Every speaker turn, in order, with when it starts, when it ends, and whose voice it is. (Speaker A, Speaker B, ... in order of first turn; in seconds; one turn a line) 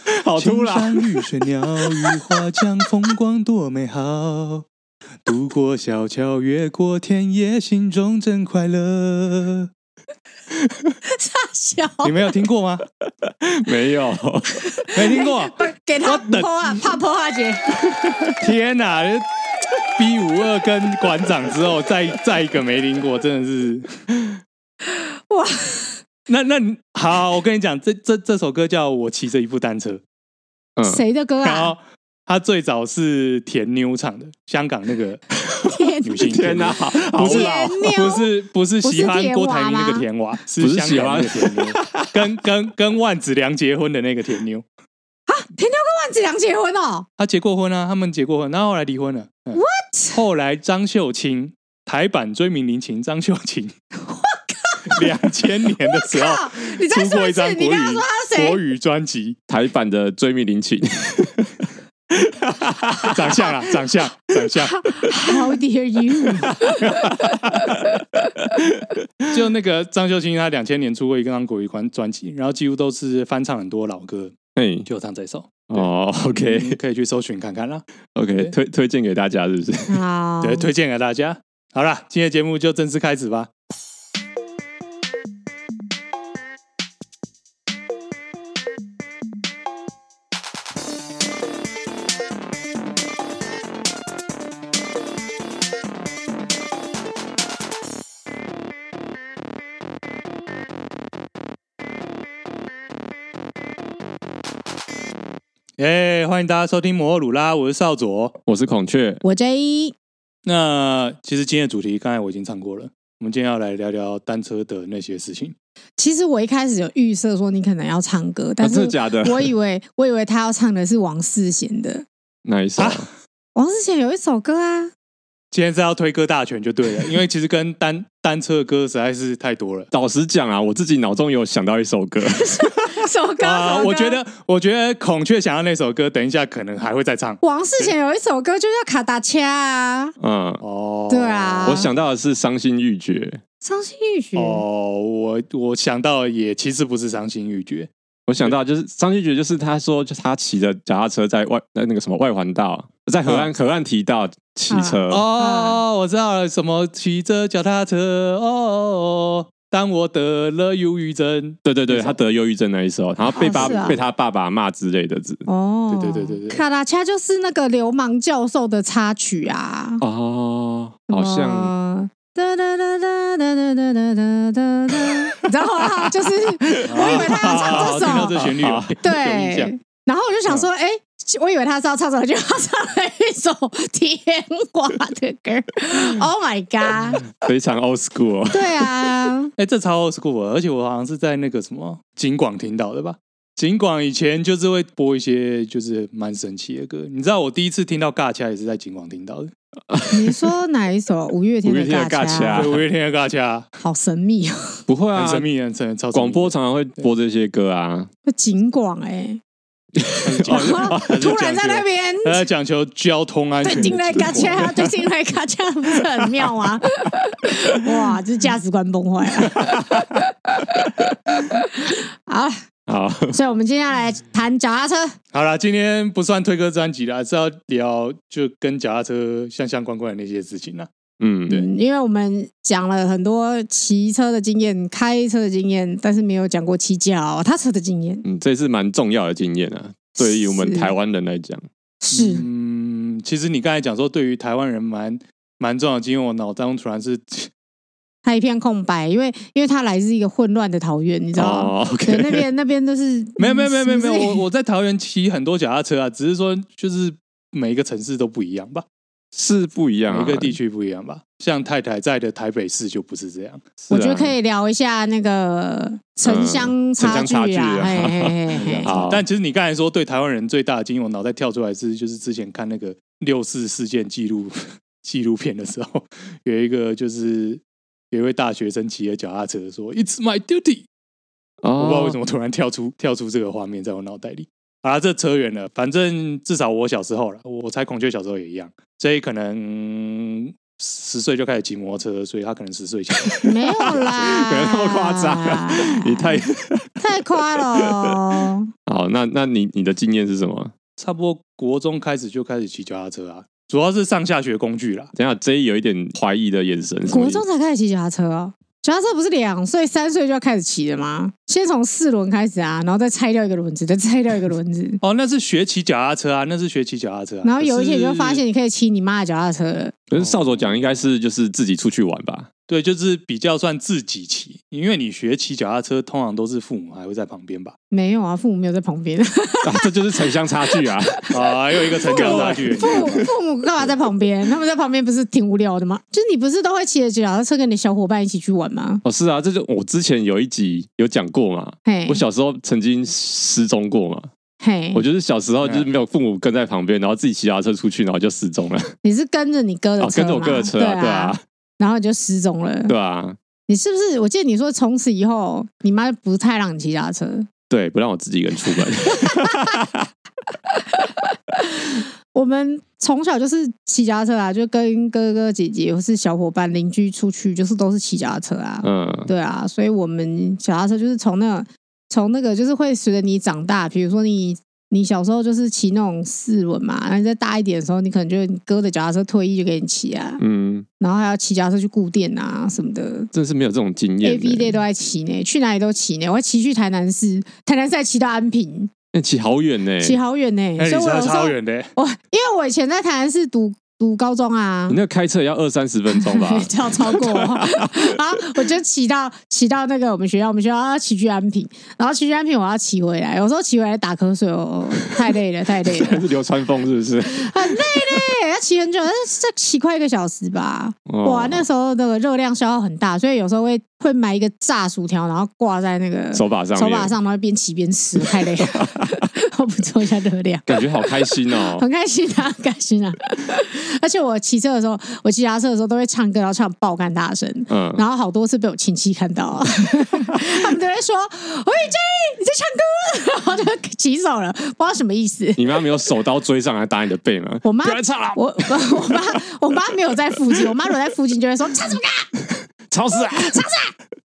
Speaker A: 0.1-1.2
Speaker B: 0.4-4.7
Speaker A: 1.8-2.2
Speaker B: 5.2-9.7
Speaker C: 11.0-12.2
Speaker B: 12.0-12.8
Speaker A: 13.2-14.8
Speaker C: 14.6-17.9
Speaker B: 14.9-16.9
Speaker B: 18.3-19.3
Speaker B: 20.0-24.0
Speaker C: 24.9-26.0
Speaker B: 26.3-30.0
Speaker A: 30.8-31.0
Speaker C: 30.9-31.7
Speaker B: 31.4-35.2
Speaker A: 35.6-38.0
Speaker C: 35.7-36.3
Speaker B: 36.0-44.7
Speaker C: 37.2-38.3
Speaker C: 38.8-40.0
Speaker A: 40.6-42.1
Speaker C: 45.3-47.1
Speaker B: 47.2-49.6
Speaker C: 49.5-50.2
Speaker B: 50.1-53.7
Speaker C: 54.1-55.0
Speaker B: 54.9-59.4
Speaker C: 55.9-58.6
Speaker A: 59.5-63.2
Speaker B: 63.0-65.0
Speaker C: 64.7-67.7
Speaker A: 66.6-69.3
Speaker B: 69.3-77.8
Speaker A: 74.5-74.9
Speaker A: 75.7-76.8
Speaker A: 78.2-80.0
Speaker C: 79.9-80.7
Speaker B: 80.4-83.5
Speaker B: 105.8-108.4
Speaker A: 108.5-109.2
Speaker C: 109.2-110.0
Speaker B: 110.5-115.5
Speaker C: 116.0-122.1
Speaker A: 118.6-119.5
Speaker A: 122.5-123.1
Speaker B: 122.8-123.1
Speaker C: 123.5-124.9
Speaker B: 125.5-129.9
Speaker A: 129.9-132.7
Speaker C: 132.2-134.2
Speaker B: 133.4-137.9
Speaker C: 137.4-140.1
Speaker A: 140.2-140.6
Speaker B: 140.6-141.8
Speaker C: 141.1-141.9
Speaker A: 141.6-143.4
Speaker C: 143.6-144.6
Speaker B: 144.4-147.9
Speaker A: 148.3-155.2
Speaker B: 153.2-153.5
Speaker C: 154.7-155.8
Speaker B: 155.1-162.2
Speaker A: 161.7-165.4
Speaker C: 163.3-164.0
Speaker B: 163.6-164.0
Speaker C: 165.5-170.0
Speaker B: 165.9-166.6
Speaker A: 170.0-171.7
Speaker C: 171.1-178.4
Speaker A: 176.0-178.9
Speaker B: 176.9-179.7
Speaker C: 179.0-187.3
Speaker A: 187.2-189.1
Speaker C: 188.5-189.5
Speaker B: 189.6-199.5
Speaker A: 199.9-200.4
Speaker C: 200.1-202.7
Speaker A: 201.6-202.8
Speaker B: 202.5-203.7
Speaker C: 203.8-204.8
Speaker A: 204.9-205.5
Speaker B: 205.2-207.1
Speaker A: 206.1-208.1
Speaker C: 208.3-209.4
Speaker A: 210.0-211.1
Speaker B: 210.2-214.9
Speaker C: 210.4-212.4
Speaker C: 213.6-222.6
Speaker A: 213.9-214.7
Speaker A: 219.6-220.2
Speaker A: 222.9-223.3
Speaker C: 223.3-225.2
Speaker B: 225.3-230.9
Speaker A: 231.2-231.6
Speaker C: 231.5-238.2
Speaker A: 238.2-241.7
Speaker C: 240.2-240.9
Speaker C: 242.0-242.4
Speaker B: 242.1-247.5
Speaker C: 248.2-254.4
Speaker A: 251.3-252.4
Speaker B: 253.4-258.9
Speaker A: 259.3-260.6
Speaker B: 260.1-263.8
Speaker A: 263.9-264.4
Speaker C: 263.9-269.0
Speaker A: 266.2-269.2
Speaker B: 268.6-280.9
Speaker A: 281.6-282.2
Speaker B: 281.8-294.0
Speaker A: 293.3-297.0
Speaker C: 293.4-296.4
Speaker C: 297.0-298.7
Speaker A: 297.6-298.2
Speaker A: 298.9-300.7
Speaker B: 301.0-305.1
Speaker A: 305.1-307.4
Speaker C: 307.1-315.0
Speaker B: 315.0-318.4
Speaker C: 317.4-320.0
Speaker A: 320.1-322.5
Speaker B: 320.2-320.7
Speaker B: 322.7-327.8
Speaker C: 327.9-331.4
Speaker A: 329.6-331.2
Speaker B: 331.3-333.0
Speaker C: 332.1-339.0
Speaker A: 332.1-333.3
Speaker A: 339.0-344.3
Speaker C: 341.9-342.2
Speaker C: 344.6-345.0
Speaker A: 344.9-348.9
Speaker B: 345.6-345.9
Speaker C: 349.0-352.9
Speaker A: 350.0-351.4
Speaker A: 352.9-353.4
Speaker C: 353.7-357.5
Speaker A: 357.7-360.1
Speaker C: 359.1-359.6
Speaker C: 360.9-380.4
Speaker A: 368.8-369.3
Speaker A: 380.4-380.9
Speaker C: 381.0-383.3
Speaker A: 383.3-384.8
Speaker C: 384.2-388.9
Speaker A: 389.1-390.2
Speaker C: 390.0-395.0
Speaker B: 390.8-391.9
Speaker A: 394.9-398.6
Speaker C: 396.1-406.3
Speaker A: 405.8-408.2
Speaker C: 407.3-435.7
Speaker A: 411.1-411.7
Speaker A: 416.3-417.1
Speaker A: 418.2-419.2
Speaker A: 420.7-421.9
Speaker A: 427.7-428.0
Speaker A: 435.6-439.2
Speaker C: 437.6-442.3
Speaker A: 442.9-443.6
Speaker C: 443.2-443.9